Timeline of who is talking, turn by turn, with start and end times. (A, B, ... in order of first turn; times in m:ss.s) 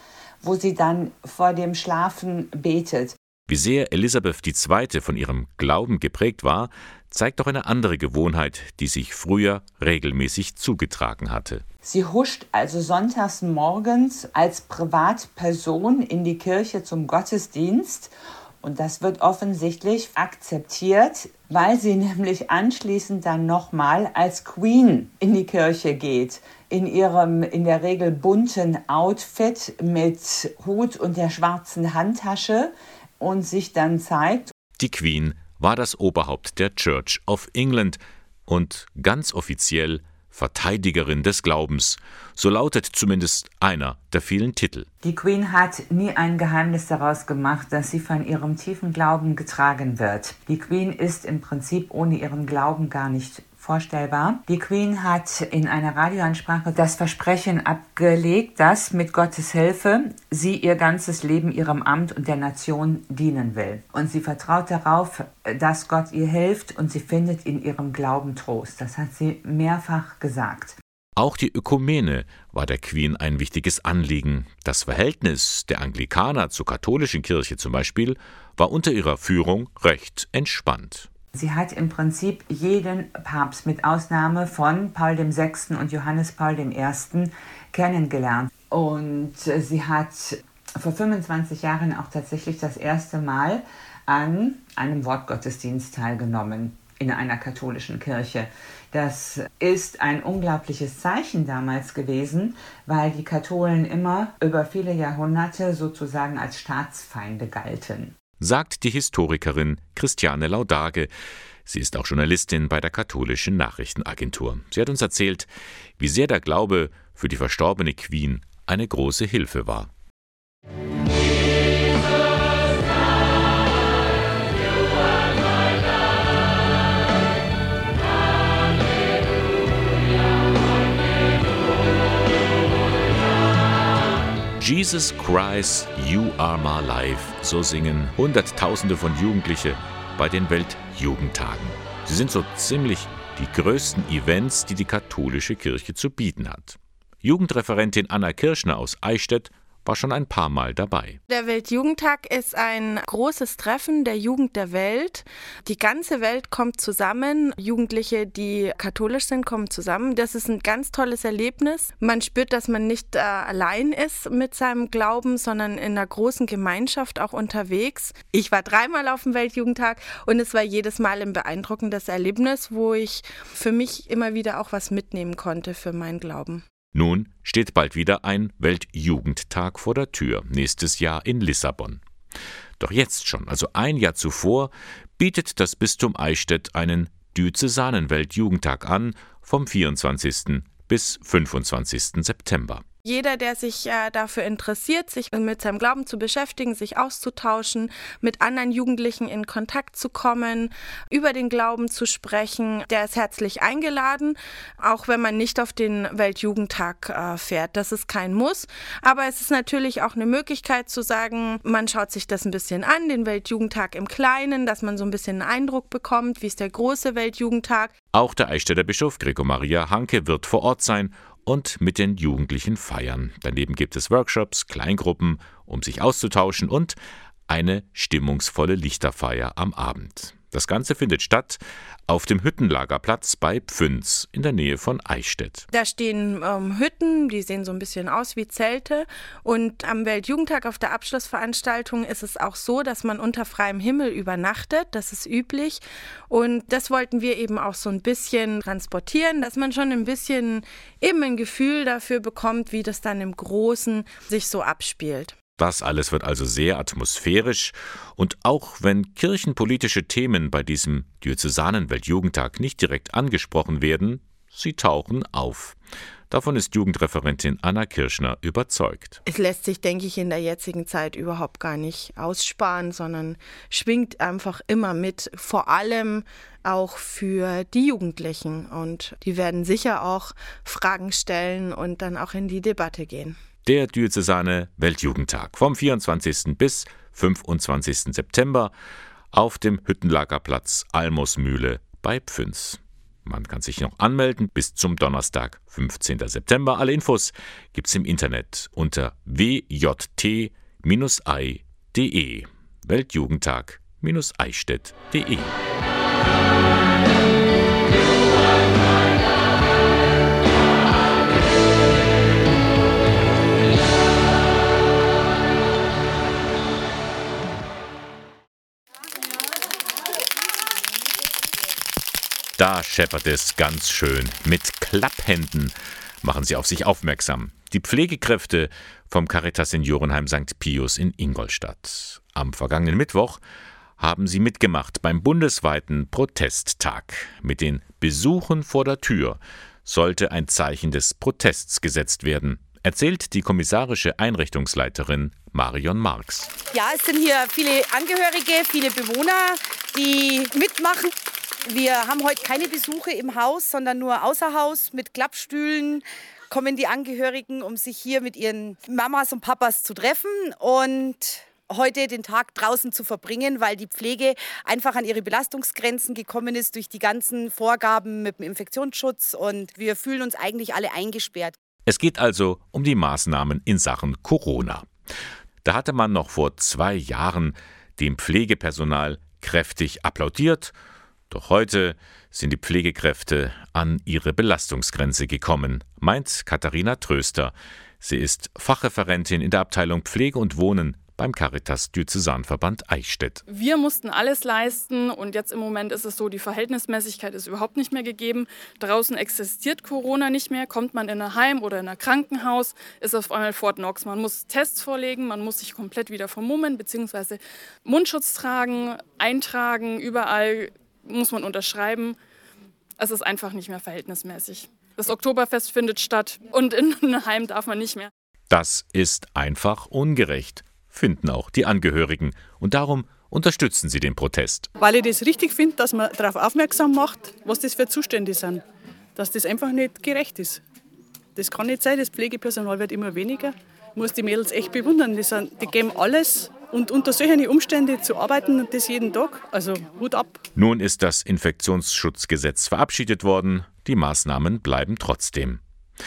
0:00.4-0:03.1 A
0:03.5-0:11.6 B
0:11.8-0:34.5 A
0:34.8-0:44.9 B
0:45.0-1:10.8 A
1:11.2-1:21.1 B
1:21.3-1:48.1 A
1:48.4-1:51.1 B
1:51.6-1:55.5 B
1:56.0-1:59.9 B
2:14.6-2:31.2 B
2:31.3-2:56.6 C
2:56.9-3:02.0 B
3:02.8-3:12.8 B
3:13.0-3:37.9 C
3:38.1-3:47.0 B
3:47.5-3:55.7 B
3:55.7-4:15.4 C
4:15.6-4:25.8 B
4:26.3-4:29.2 B
4:29.2-4:43.4 C
4:43.6-4:48.7 B
4:49.3-5:05.5 B
5:22.6-5:33.4 B
5:34.0-5:46.6 B
5:46.7-6:11.6 D
6:11.9-6:14.9 B
6:15.6-6:20.7 B
6:21.3-6:33.4 B
6:33.5-6:52.2 E
6:53.0-6:58.1 E
6:58.5-7:04.7 B
7:04.8-7:08.6 F
7:09.1-7:10.6 F
7:11.4-7:20.4 F
7:20.6-7:25.6 B